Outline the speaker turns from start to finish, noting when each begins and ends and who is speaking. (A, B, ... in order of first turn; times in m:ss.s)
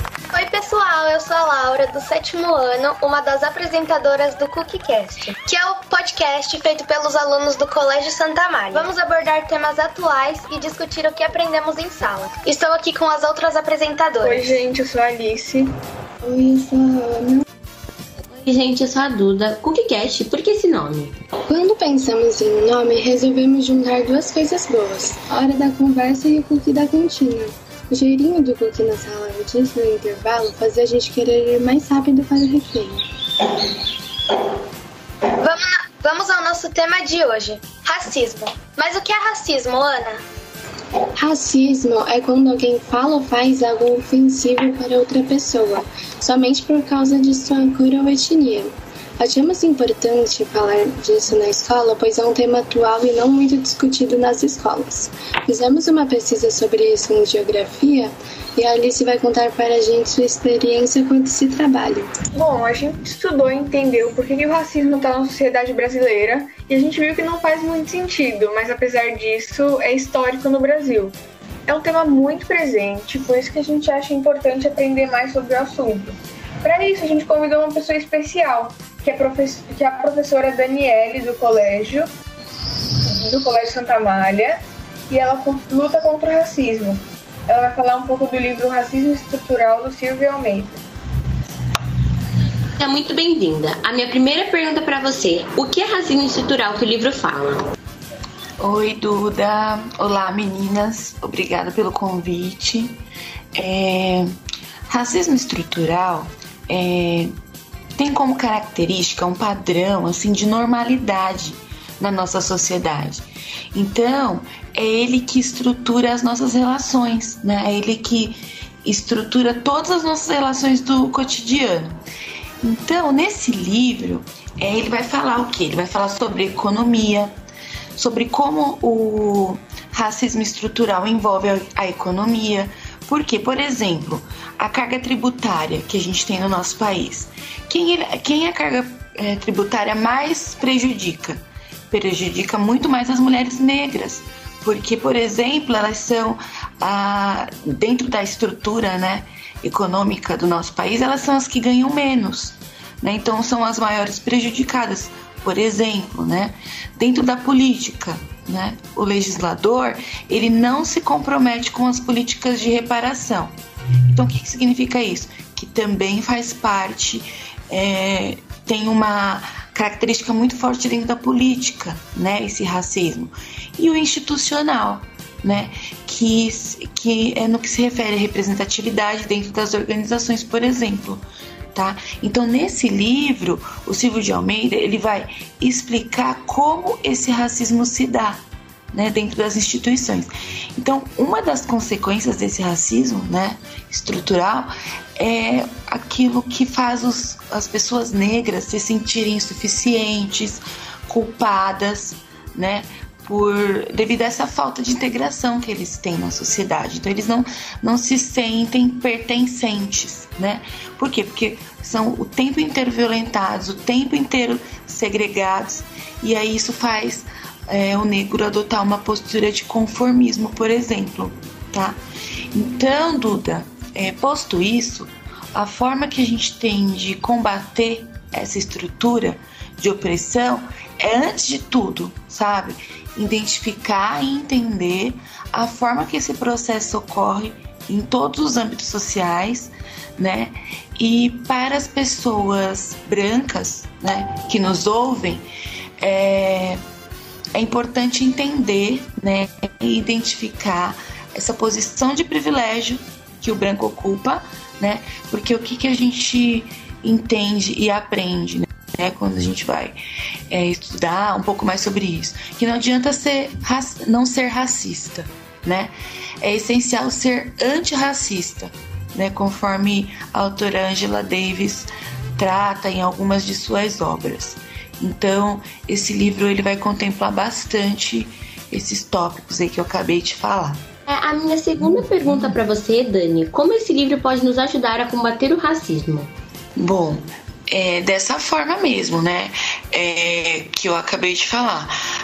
0:00.3-0:14.6 A
0:14.2-0:15.7 B
0:16.2-0:17.4 C
0:18.4-0:21.2 D
0:21.5-0:33.0 C
0:35.4-0:40.2 A
0:41.2-1:02.1 C
1:02.3-1:11.2 B
1:11.7-1:22.1 B
1:23.0-1:30.8 B
1:32.8-1:37.7 D
1:38.6-1:43.0 E
1:43.6-1:44.3 E
1:44.9-1:47.3 E
1:48.0-2:02.0 E
2:02.6-2:07.3 E
2:08.0-2:43.5 E
2:44.1-3:42.0 E
3:42.5-4:05.4 E
4:06.0-4:06.8 E
4:07.5-4:20.0 E
4:20.5-4:40.8 E
4:41.1-4:46.3 D
4:46.8-4:52.0 E